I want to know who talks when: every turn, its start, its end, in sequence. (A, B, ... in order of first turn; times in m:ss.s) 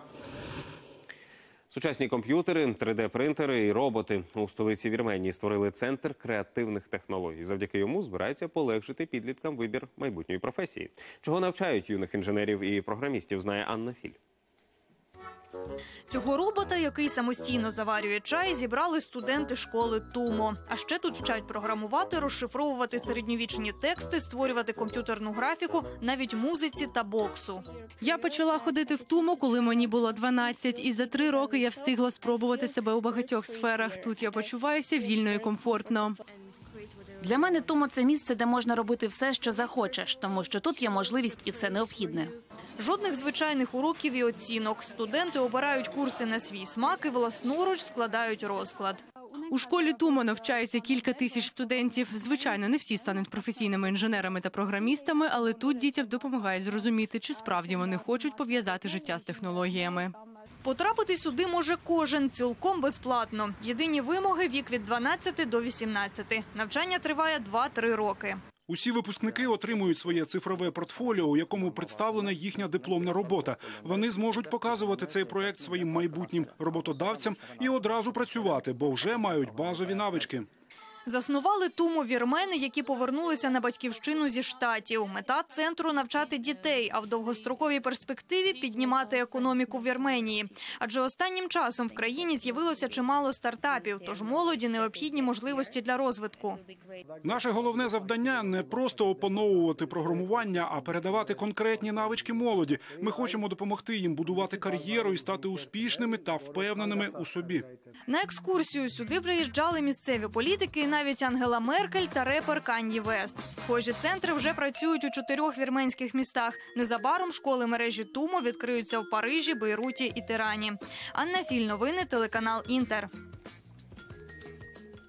0:01.7-0:14.2 A
0:16.1-0:27.7 B
0:28.0-0:36.2 C
0:37.3-0:42.3 D
0:42.8-0:49.0 B
0:49.5-1:00.1 C
1:00.6-1:08.4 B
1:08.7-1:20.4 E
1:21.0-1:36.6 B
1:37.2-1:47.6 E
1:48.1-2:03.1 B